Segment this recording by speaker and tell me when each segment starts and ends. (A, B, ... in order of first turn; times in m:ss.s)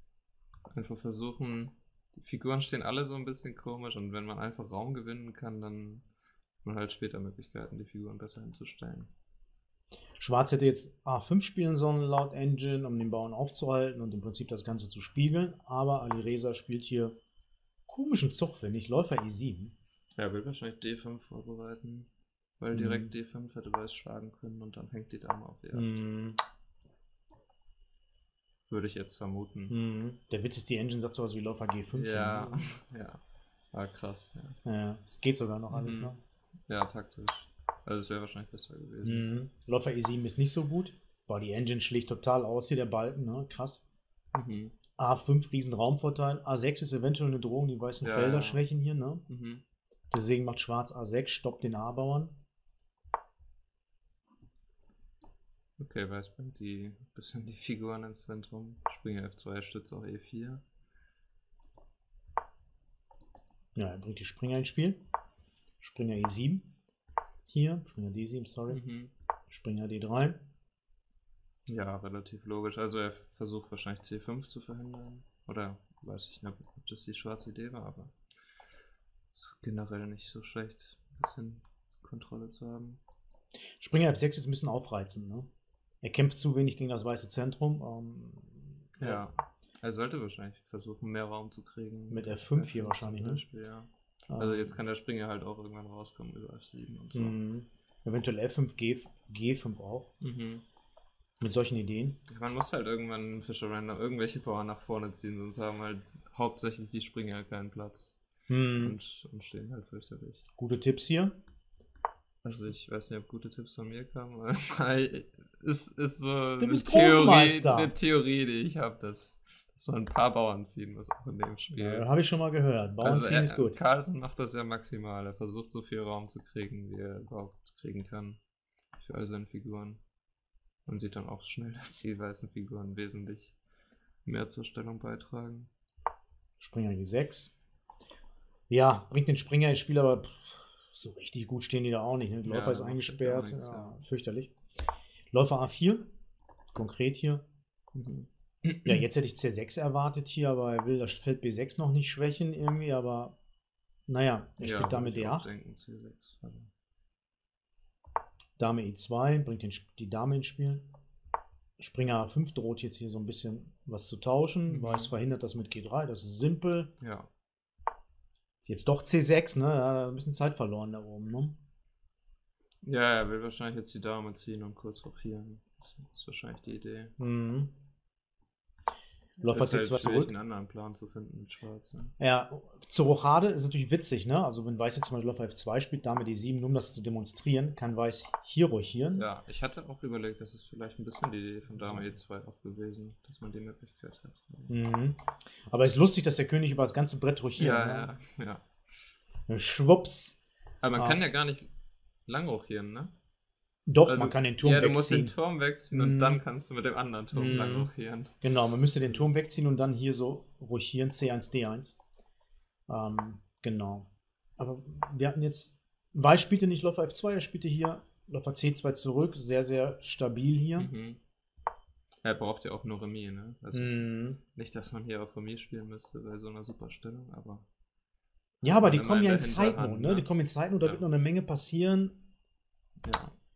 0:00.7-0:06.1 A
0:06.6-0:09.1 A
0:10.2-0:17.2 B
0:17.9-0:19.7 B
0:20.2-0:26.0 A
0:22.7-0:23.1 B
0:25.7-0:26.4 B
0:28.7-0:29.8 A
0:29.7-0:32.8 B
0:31.9-0:33.2 A
0:33.7-0:34.6 A
0:34.6-0:36.2 B
0:35.7-0:36.1 A
0:36.7-0:39.4 A
0:39.0-0:43.8 B
0:44.3-0:44.8 A
0:45.0-0:49.2 B
0:48.0-0:48.6 A
0:49.3-0:49.6 A
0:50.1-0:52.4 B
0:55.8-1:00.6 A
1:03.8-1:05.0 B
1:05.8-1:06.7 B
1:07.5-1:08.8 B
1:08.7-1:09.1 A
1:09.5-1:10.4 B
1:11.7-1:18.2 A
1:19.3-1:23.0 A
1:23.8-1:25.5 B
1:26.0-1:29.2 B
1:29.0-1:37.4 A
1:32.1-1:33.4 B
1:34.3-1:34.8 B
1:37.1-1:40.1 B
1:40.2-1:40.6 A
1:41.4-1:42.2 B
1:42.3-1:48.2 A
1:48.5-1:49.0 B
1:48.8-1:50.4 A
1:50.6-1:51.4 B
1:52.4-2:02.1 A
1:56.6-1:57.9 B
2:01.8-2:03.8 B
2:03.0-2:08.4 A
2:09.0-2:10.0 A
2:10.9-2:13.6 A
2:14.2-2:15.7 A
2:16.6-2:17.5 B
2:18.7-2:24.5 B
2:22.4-2:24.0 A
2:25.3-2:26.1 B
2:26.7-2:27.4 B
2:27.9-2:29.0 A
2:28.8-2:33.4 B
2:34.1-2:35.5 B
2:34.6-2:36.7 A
2:38.6-2:40.8 B
2:41.8-2:46.9 B
2:44.7-2:45.1 A
2:47.0-2:47.3 A
2:48.6-2:51.6 B
2:52.8-2:57.1 A
2:57.2-2:57.7 B
2:59.4-3:00.3 B
2:59.4-3:02.1 A
3:02.2-3:09.3 B
3:09.1-3:14.7 A
3:11.8-3:12.2 B
3:14.7-3:18.1 B
3:17.6-3:18.7 A
3:19.5-3:20.4 B
3:20.8-3:21.7 A
3:22.3-3:23.1 A
3:23.9-3:25.3 B
3:24.0-3:28.3 A
3:25.9-3:26.4 B
3:27.3-3:27.9 B
3:28.4-3:32.0 B
3:32.9-3:40.9 B
3:40.8-3:41.2 A
3:42.2-3:47.7 A
3:43.7-3:44.4 B
3:48.6-3:50.3 A
3:48.6-3:52.2 B
3:53.0-3:53.3 A